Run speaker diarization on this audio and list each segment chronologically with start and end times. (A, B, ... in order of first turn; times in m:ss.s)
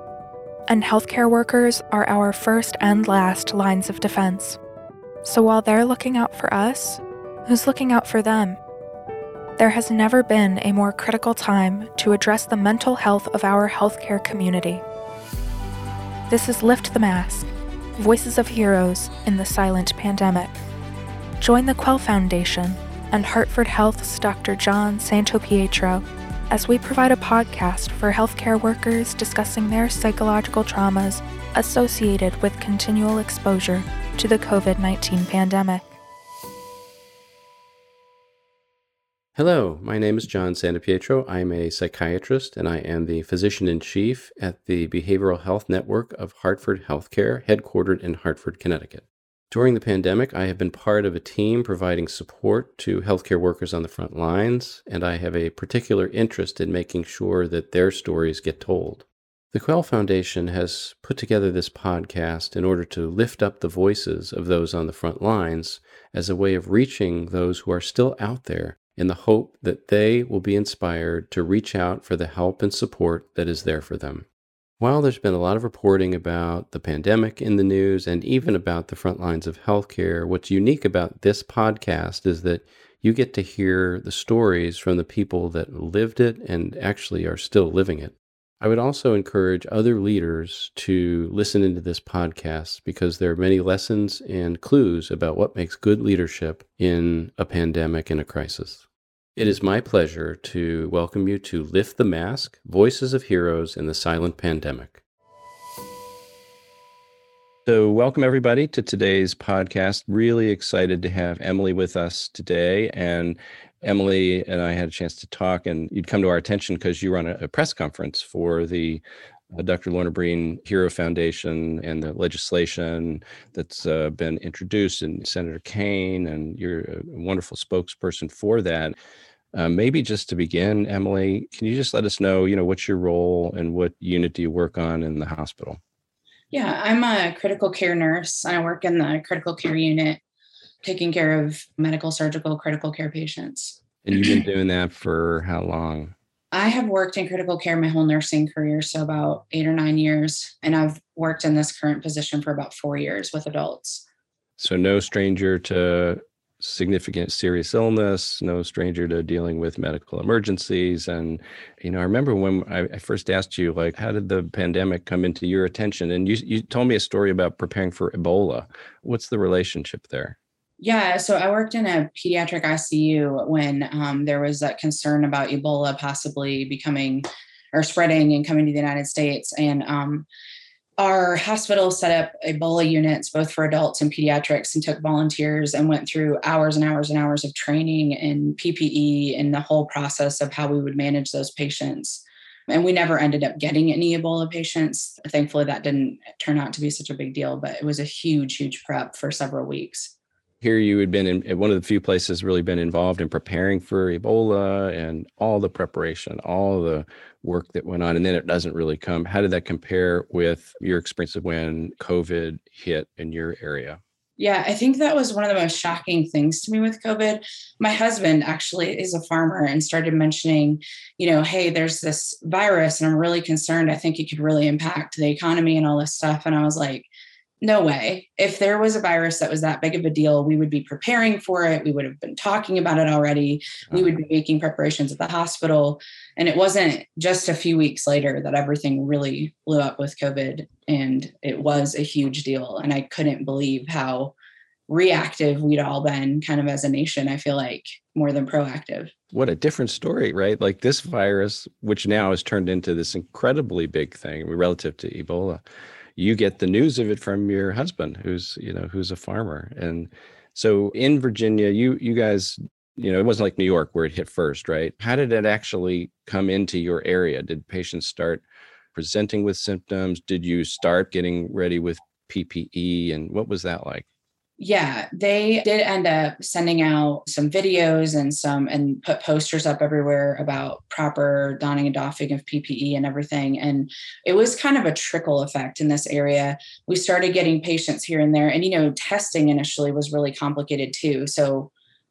0:00.7-0:04.6 A
0:05.2-0:08.6 A
0:09.6-0:14.8 A
0:16.3-0:20.5 A
0:21.4-0:36.0 A
0:39.4-1:14.3 B
1:14.8-1:45.0 B
1:47.6-1:59.0 B
1:59.5-2:08.9 B
2:09.5-2:15.8 B
2:16.5-2:20.2 C
2:20.8-2:24.4 C
2:24.0-2:26.1 B
2:26.5-2:34.0 C
2:34.6-2:50.4 B
2:50.8-3:00.3 C
3:01.0-3:20.1 C
3:20.6-3:34.0 B
3:34.4-3:47.1 C
3:47.6-4:04.3 C
4:04.9-4:09.1 C
4:09.3-4:15.6 B
4:16.2-4:28.4 B
4:28.9-4:34.0 B
4:34.6-4:51.7 C